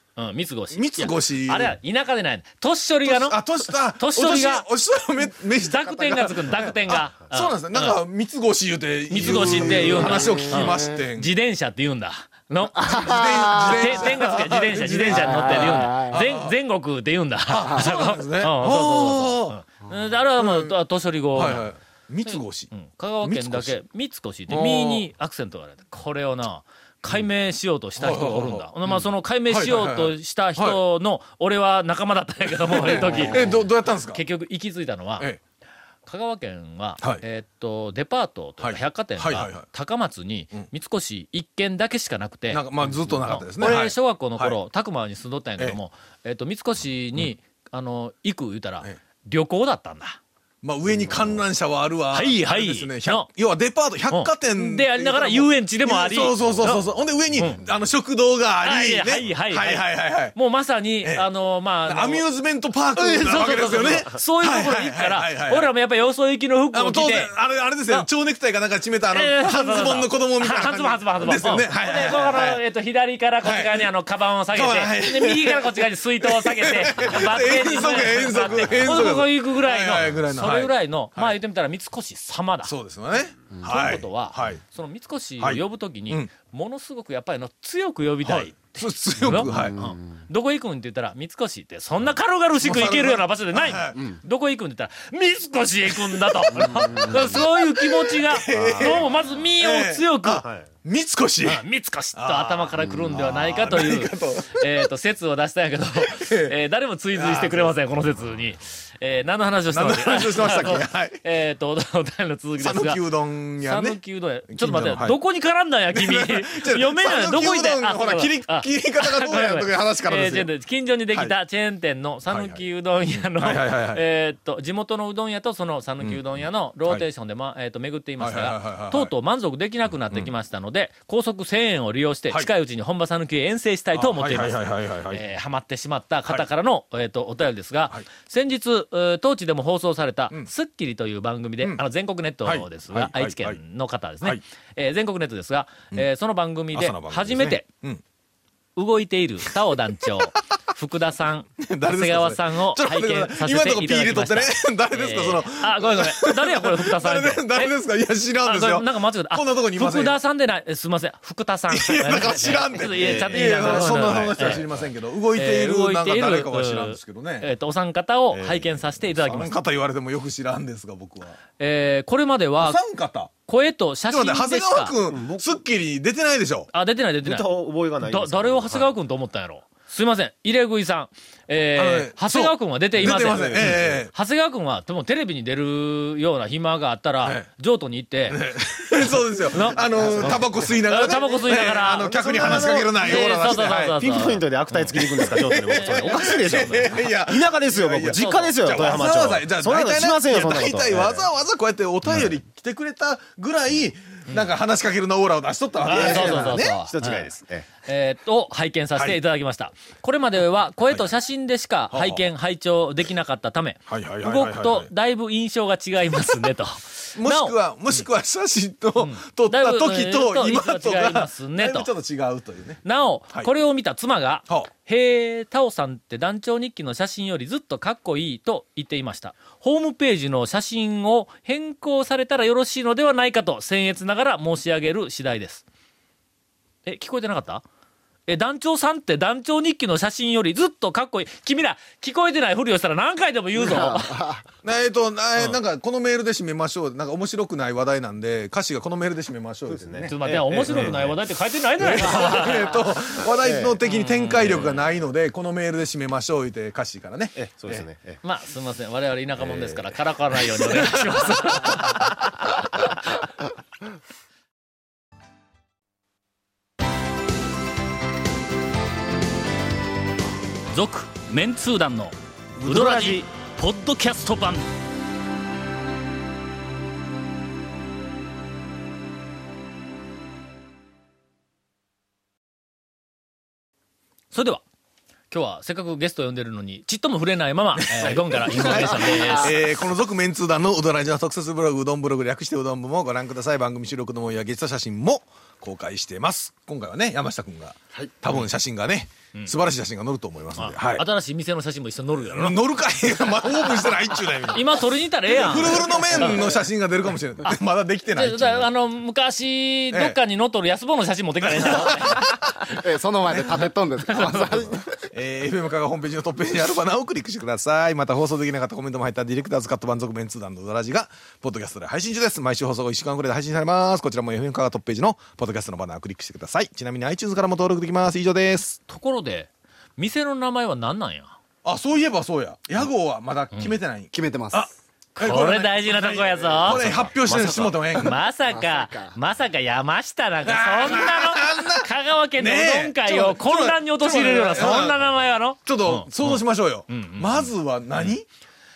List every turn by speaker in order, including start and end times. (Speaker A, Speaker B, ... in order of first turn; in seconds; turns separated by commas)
Speaker A: 0.2-4.7, Speaker B: 0.7-1.8, Speaker B: 3.0-11.3, Speaker A: 5.6-8.0, Speaker A: 9.1-21.6, Speaker C: 9.4-11.0, Speaker C: 12.8-13.9, Speaker B: 12.9-16.6, Speaker C: 15.1-16.2, Speaker B: 17.5-19.6, Speaker B: 20.4-20.7, Speaker B: 21.3-23.8, Speaker A: 22.3-33.6, Speaker B: 24.5-25.1, Speaker B: 28.0-30.8, Speaker B: 32.6-34.2, Speaker A: 34.1-35.3, Speaker A: 36.1-50.2, Speaker B: 38.6-39.6, Speaker B: 42.5-44.6, Speaker B: 50.6-60.4, Speaker A: 52.1-53.3, Speaker A: 54.1-57.6, Speaker A: 58.6-62.2, Speaker B: 61.0-61.3, Speaker B: 61.9-65.7, Speaker A: 63.0-67.3, Speaker B: 66.7-72.6, Speaker A: 69.1-82.7, Speaker B: 73.4-73.9, Speaker B: 74.5-81.4, Speaker B: 82.6-84.6, Speaker A: 83.6-100.5, Speaker B: 85.4-86.3, Speaker B: 88.2-89.8, Speaker C: 89.5-89.9, Speaker B: 92.6-94.1, Speaker B: 96.1-104.7, Speaker D: 98.5-99.0, Speaker D: 100.4-100.7, Speaker A: 101.4-113.0, Speaker B: 106.0-106.5, Speaker B: 107.1-107.8, Speaker B: 109.7-111.2, Speaker B: 112.6-115.2, Speaker A: 113.6-147.7, Speaker B: 115.9-120.5, Speaker B: 122.3-122.6, Speaker B: 123.3-124.0, Speaker B: 128.2-129.1, Speaker B: 133.9-135.2, Speaker B: 142.4-143.6, Speaker B: 146.7-148.0, Speaker A: 148.8-157.7, Speaker B: 151.6-160.2, Speaker A: 158.4-164.6, Speaker B: 161.7-167.5, Speaker D: 162.8-164.8, Speaker A: 165.4-169.6, Speaker D: 168.3-168.8, Speaker B: 169.2-171.4, Speaker A: 171.6-172.8, Speaker B: 172.6-173.3, Speaker A: 173.5-174.9, Speaker B: 174.1-176.7, Speaker D: 175.1-175.6, Speaker A: 176.7-177.5, Speaker D: 177.2-178.9, Speaker A: 178.0-188.4, Speaker B: 181.8-184.1, Speaker D: 183.1-184.0, Speaker B: 187.2-187.5, Speaker B: 188.3-194.0, Speaker A: 189.5-196.8, Speaker D: 190.0-190.7, Speaker D: 192.0-201.3, Speaker B: 194.8-206.8, Speaker A: 205.8-217.6, Speaker D: 205.9-207.7, Speaker B: 211.9-212.2, Speaker B: 213.9-214.9, Speaker B: 217.2-222.8, Speaker A: 219.0-221.9, Speaker A: 222.8-235.6, Speaker A: 236.8-237.6, Speaker A: 238.3-244.3, Speaker C: 243.6-244.4, Speaker B: 244.6-251.2, Speaker D: 249.7-251.0, Speaker A: 250.1-252.8, Speaker B: 251.8-257.9, Speaker D: 253.4-253.8, Speaker A: 253.8-254.8, Speaker D: 257.4-258.2, Speaker A: 258.2-262.1, Speaker D: 259.4-259.9, Speaker B: 261.6-261.9, Speaker A: 270.7-274.7, Speaker D: 272.6-273.2, Speaker A: 284.3-284.6, Speaker A: 285.3-289.6, Speaker B: 287.8-301.1, Speaker C: 288.6-289.2, Speaker A: 300.6-302.6, Speaker B: 302.2-308.7, Speaker A: 304.5-306.6, Speaker A: 308.1-312.4, Speaker B: 309.9-310.2, Speaker B: 311.4-312.6, Speaker C: 312.6-314.9, Speaker B: 314.1-328.8, Speaker A: 328.9-331.4, Speaker B: 331.6-338.2, Speaker C: 334.1-334.8, Speaker A: 335.2-337.1, Speaker D: 336.8-337.8, Speaker A: 337.9-347.5, Speaker C: 338.5-339.2, Speaker B: 340.4-345.0, Speaker B: 345.6-348.3